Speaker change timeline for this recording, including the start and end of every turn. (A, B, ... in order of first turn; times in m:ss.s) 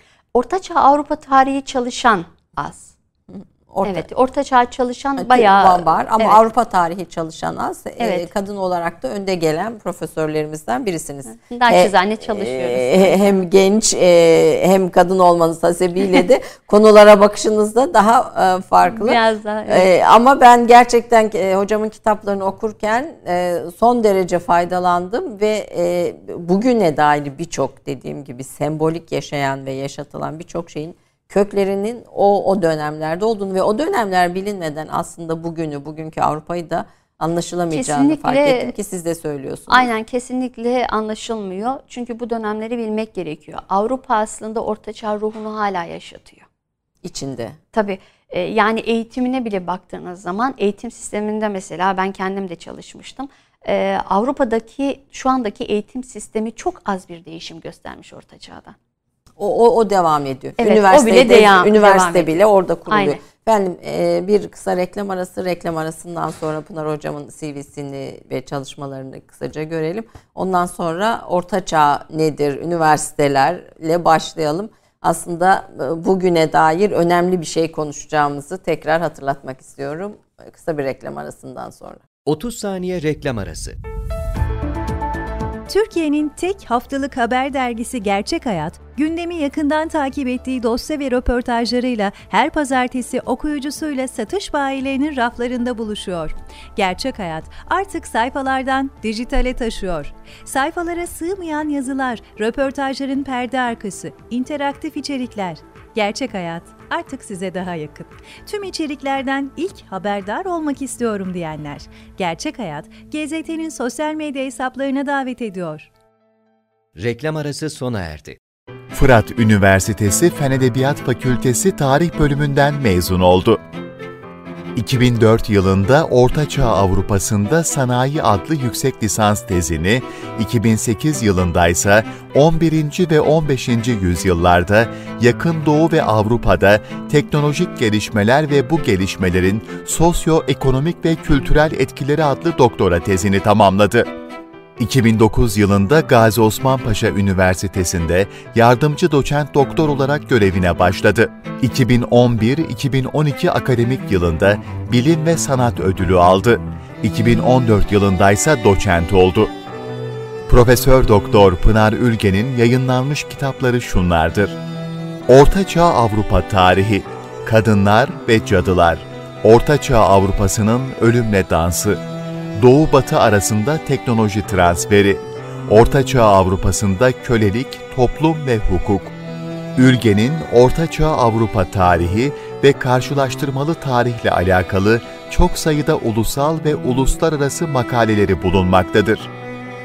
0:00.3-0:02.9 A
0:03.3-0:04.1 B
0:03.8-0:06.4 A
0:05.2-0:39.9 B
0:08.0-0:08.3 A
0:11.4-0:13.4 A
0:18.9-0:19.9 A
0:37.7-0:38.7 A
0:39.7-0:46.5 A
0:47.0-0:47.6 B
0:47.7-0:58.8 A
0:59.4-1:22.0 B
1:00.6-1:02.4 A
1:02.9-1:03.2 A
1:22.2-1:23.8 C
1:25.7-1:55.9 D
1:57.0-1:58.4 C
1:58.9-2:03.6 E
2:04.8-2:24.1 E
2:24.8-2:39.5 E
2:40.5-2:44.6 E
2:45.3-2:52.0 E
2:52.6-2:59.2 E
2:59.8-3:09.3 E